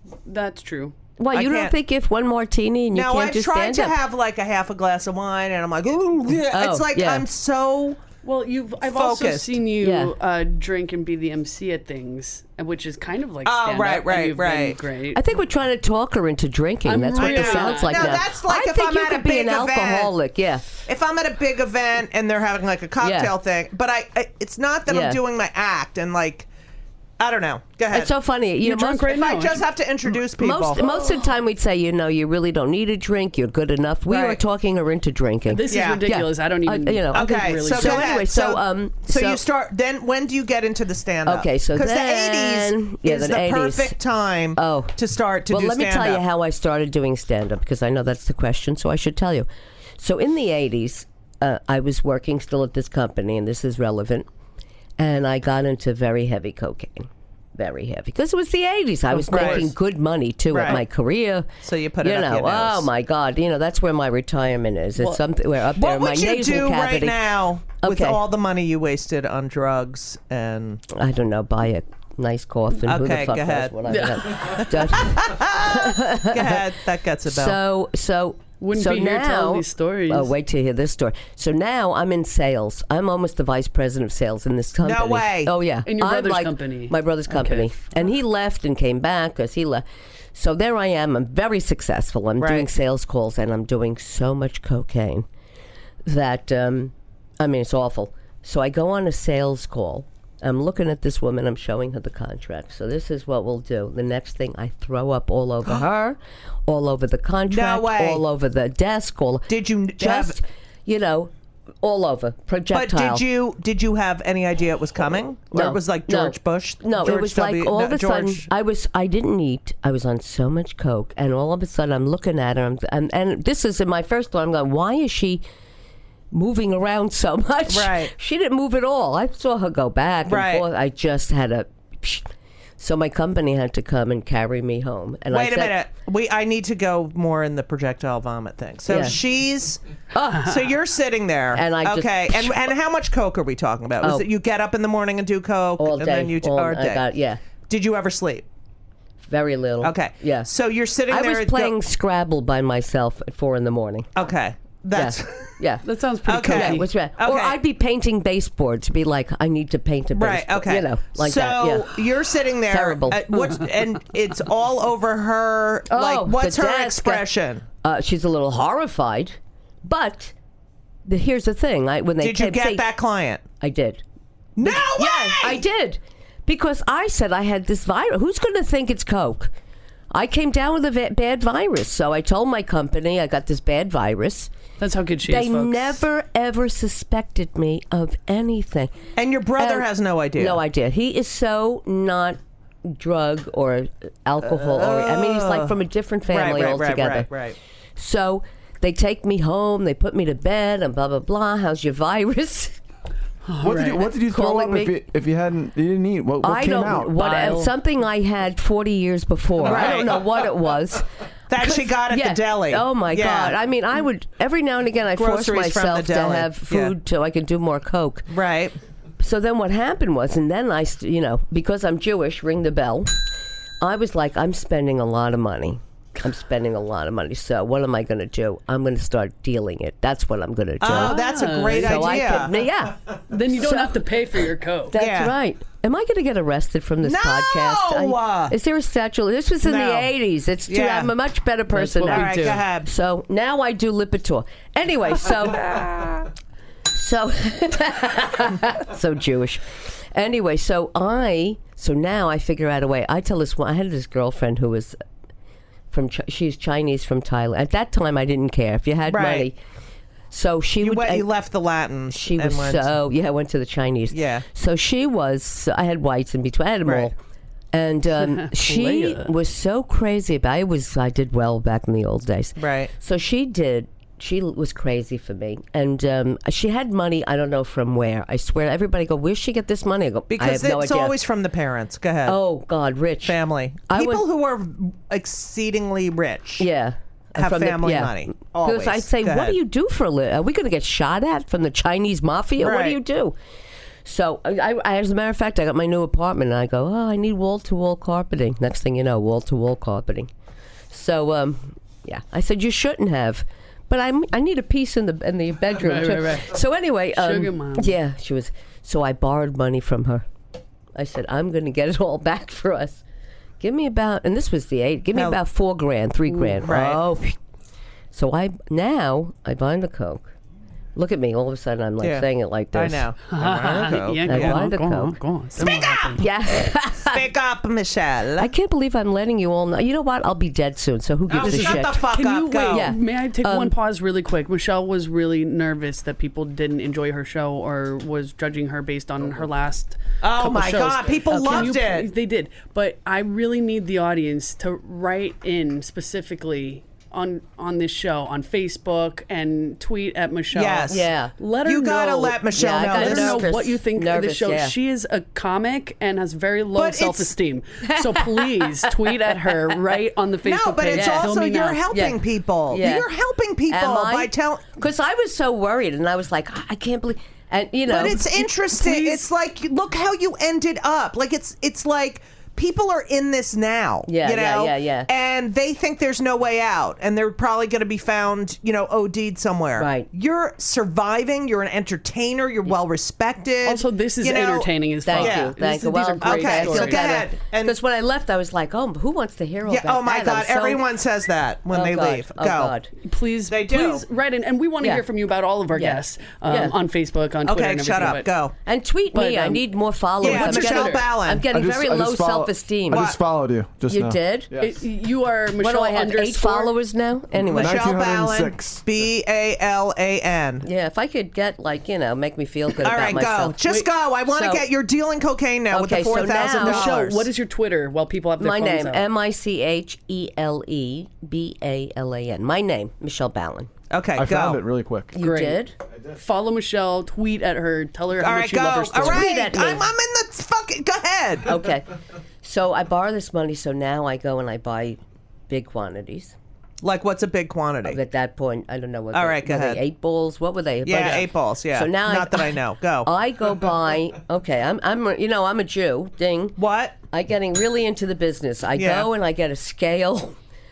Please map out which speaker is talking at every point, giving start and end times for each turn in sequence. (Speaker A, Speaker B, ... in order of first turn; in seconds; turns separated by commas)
Speaker A: 0.2-0.9, Speaker B: 1.2-4.0, Speaker C: 1.3-1.7, Speaker C: 2.9-8.0, Speaker B: 6.4-7.3, Speaker A: 8.2-15.2, Speaker C: 8.8-9.6, Speaker B: 9.8-10.1, Speaker C: 13.4-14.8, Speaker B: 15.1-20.6, Speaker A: 16.9-18.2, Speaker C: 17.2-20.1, Speaker C: 20.8-26.5, Speaker B: 23.0-23.3, Speaker B: 24.9-25.2, Speaker C: 27.2-28.1, Speaker B: 27.9-29.2, Speaker A: 28.6-29.6, Speaker C: 29.1-30.8, Speaker B: 30.1-39.4, Speaker A: 35.5-38.2, Speaker C: 35.7-36.0, Speaker C: 37.1-46.2, Speaker B: 41.2-44.0, Speaker B: 44.5-45.0, Speaker B: 45.5-49.5, Speaker B: 50.0-54.3, Speaker B: 55.0-68.2, Speaker A: 59.1-59.7, Speaker C: 59.3-59.7, Speaker C: 60.5-60.8, Speaker C: 61.6-62.9, Speaker C: 65.8-70.8, Speaker B: 70.9-76.7, Speaker C: 72.8-73.8, Speaker A: 73.9-74.6, Speaker C: 74.3-77.6, Speaker B: 77.2-95.2, Speaker A: 78.6-80.3, Speaker C: 84.8-85.5, Speaker A: 85.8-87.7, Speaker C: 92.4-92.7, Speaker B: 96.0-113.2, Speaker C: 107.5-108.2, Speaker C: 109.5-110.4, Speaker C: 112.7-118.5, Speaker B: 115.5-125.4, Speaker B: 126.3-135.8, Speaker C: 127.7-128.1, Speaker C: 130.2-130.7, Speaker C: 135.3-139.8, Speaker B: 138.9-139.2, Speaker B: 140.1-140.4, Speaker A: 140.2-140.6, Speaker C: 140.4-147.1, Speaker B: 141.5-142.6, Speaker B: 144.0-144.3, Speaker B: 145.8-147.4, Speaker C: 147.7-148.4, Speaker B: 149.2-150.5, Speaker C: 149.8-151.8, Speaker B: 151.1-154.1, Speaker C: 154.2-155.6, Speaker B: 154.9-162.0, Speaker A: 155.8-156.9, Speaker C: 156.2-157.6, Speaker C: 160.1-167.6, Speaker B: 162.7-163.5, Speaker B: 165.9-167.2, Speaker B: 167.8-170.3, Speaker B: 171.1-172.8, Speaker C: 172.2-173.4, Speaker B: 173.6-174.0, Speaker C: 174.6-175.6, Speaker B: 174.6-179.5, Speaker B: 180.1-184.5, Speaker A: 184.8-186.0, Speaker B: 185.2-188.9, Speaker C: 189.2-190.6, Speaker B: 189.6-197.3, Speaker C: 194.4-195.8, Speaker C: 196.3-197.6, Speaker B: 197.9-202.8, Speaker A: 203.4-204.1, Speaker D: 203.6-207.4, Speaker B: 204.2-205.0, Speaker B: 206.4-218.3, Speaker A: 207.2-207.7, Speaker C: 209.6-210.4, Speaker C: 211.5-213.6, Speaker C: 215.1-216.9, Speaker C: 218.3-218.7, Speaker B: 219.2-223.2, Speaker B: 223.8-234.1, Speaker C: 230.8-232.5, Speaker A: 230.9-232.2, Speaker A: 233.3-234.9, Speaker B: 234.9-246.3, Speaker C: 234.9-235.3, Speaker C: 237.0-238.5, Speaker C: 239.6-240.1, Speaker C: 240.7-241.1, Speaker A: 241.7-242.6, Speaker C: 242.1-242.9, Speaker B: 246.9-255.0, Speaker B: 255.9-259.6, Speaker C: 259.1-259.5, Speaker B: 260.3-261.3, Speaker C: 260.8-262.9, Speaker B: 262.1-267.1, Speaker C: 264.1-264.4, Speaker C: 266.8-267.1, Speaker B: 267.7-281.2, Speaker A: 268.2-269.3, Speaker C: 272.6-272.9, Speaker C: 280.3-282.4, Speaker B: 282.2-283.4, Speaker C: 283.2-286.7, Speaker B: 283.9-284.3, Speaker B: 286.6-293.4, Speaker C: 287.4-289.6, Speaker C: 292.6-293.0, Speaker B: 294.0-300.3, Speaker B: 300.9-310.2, Speaker A: 305.8-306.6, Speaker A: 307.1-307.9, Speaker B: 310.9-313.0, Speaker B: 313.6-317.4, Speaker C: 315.1-315.4, Speaker C: 316.6-317.0, Speaker B: 318.1-320.3, Speaker B: 320.9-323.1, Speaker C: 322.0-324.6, Speaker A: 323.3-326.2, Speaker B: 324.2-325.2, Speaker C: 325.6-326.2, Speaker B: 326.1-327.2, Speaker C: 327.0-328.5, Speaker B: 328.4-332.1, Speaker C: 331.3-332.9, Speaker A: 331.4-361.9, Speaker B: 332.7-333.8, Speaker C: 340.2-342.1, Speaker C: 350.5-351.0, Speaker B: 350.9-351.3, Speaker C: 351.6-353.4, Speaker B: 352.5-354.7, Speaker C: 356.8-357.3, Speaker B: 357.8-359.8, Speaker C: 360.4-364.7, Speaker B: 360.9-361.3, Speaker B: 361.9-363.1, Speaker B: 363.7-368.4, Speaker C: 367.9-385.5, Speaker A: 368.7-369.2, Speaker B: 374.1-375.1, Speaker B: 379.8-380.1, Speaker A: 383.6-387.2, Speaker B: 385.0-390.8, Speaker C: 386.2-387.8, Speaker C: 389.7-392.7, Speaker B: 391.7-392.9, Speaker A: 393.0-398.3, Speaker C: 393.5-394.0, Speaker B: 395.7-396.8, Speaker C: 397.4-398.5, Speaker B: 398.6-403.1, Speaker A: 399.1-399.6, Speaker A: 400.2-401.1, Speaker C: 400.2-401.4, Speaker D: 401.5-404.8, Speaker C: 402.9-403.2, Speaker B: 403.9-404.5, Speaker A: 404.6-406.7, Speaker B: 405.6-407.8, Speaker D: 407.4-408.8, Speaker C: 407.4-410.6, Speaker B: 410.6-413.6, Speaker C: 412.8-417.3, Speaker B: 414.2-414.7, Speaker B: 415.7-416.9, Speaker A: 416.4-419.1, Speaker B: 418.4-423.7, Speaker C: 423.9-424.6, Speaker D: 424.1-425.2, Speaker B: 425.1-425.7, Speaker A: 425.2-429.3, Speaker C: 428.2-431.6, Speaker B: 428.9-429.9, Speaker B: 431.4-431.9, Speaker B: 432.4-436.3, Speaker C: 436.8-438.0, Speaker B: 437.8-446.6, Speaker C: 439.1-439.8, Speaker C: 440.8-443.1, Speaker C: 446.6-446.9, Speaker B: 447.1-450.4, Speaker C: 448.8-449.1